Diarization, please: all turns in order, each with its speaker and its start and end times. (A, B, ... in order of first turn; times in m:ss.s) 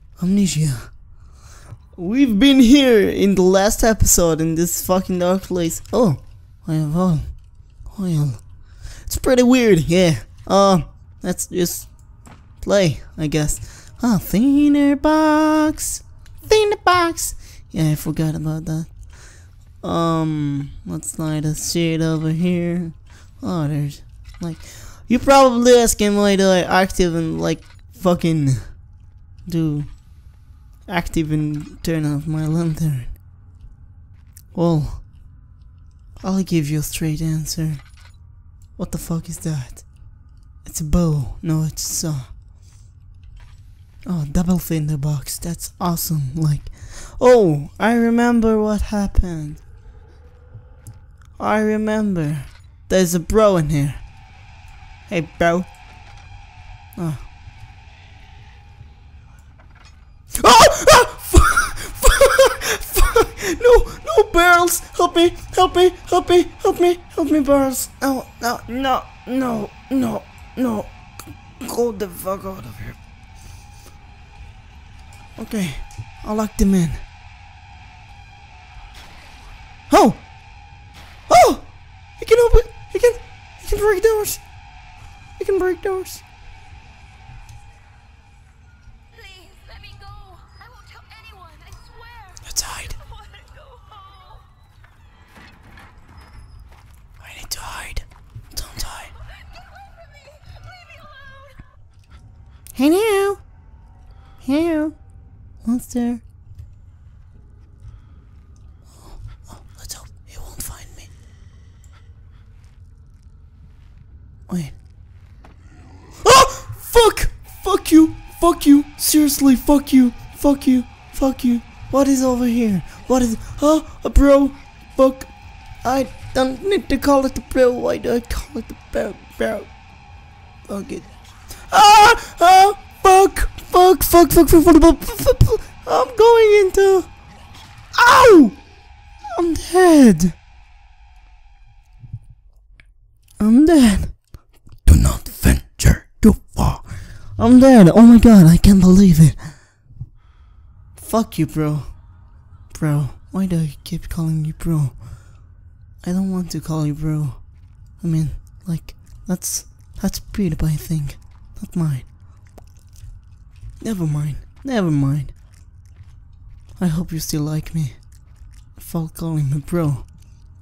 0:00.2-0:00.9 A
0:01.9-0:12.0 A
0:12.6-0:19.1 A
0:19.8-0:28.8 A
0:29.4-0:30.0 A
0:30.9-0:33.2 A
0:34.5-0:35.1 A
0:36.2-0:38.0 A
0:38.8-0:40.1 A
0:40.6-0:42.3 A
0:44.0-0:49.6 A
0:51.4-0:54.1 A
0:55.1-0:55.7 A
0:57.0-0:57.3 A
1:00.4-1:13.0 A
1:15.4-1:17.0 A
1:19.9-1:20.2 A
1:21.3-1:24.4 A
1:25.4-1:26.2 A
1:29.1-1:32.4 B
1:32.4-1:33.0 A
1:33.0-1:34.4 B
1:37.2-1:39.1 A
1:40.5-1:41.4 B
1:42.7-1:43.4 A
1:44.4-1:45.0 A
1:45.6-1:46.2 A
1:49.0-1:51.1 A
1:54.5-1:54.8 A
1:56.2-2:09.7 A
2:10.7-2:17.1 A
2:17.9-2:18.6 A
2:19.3-2:20.4 A
2:23.4-2:24.3 A
2:24.8-2:29.5 A
2:30.9-2:32.0 A
2:32.7-2:35.1 A
2:36.0-2:42.1 A
2:43.8-2:45.4 A
2:46.8-2:48.0 A
2:48.8-2:50.1 A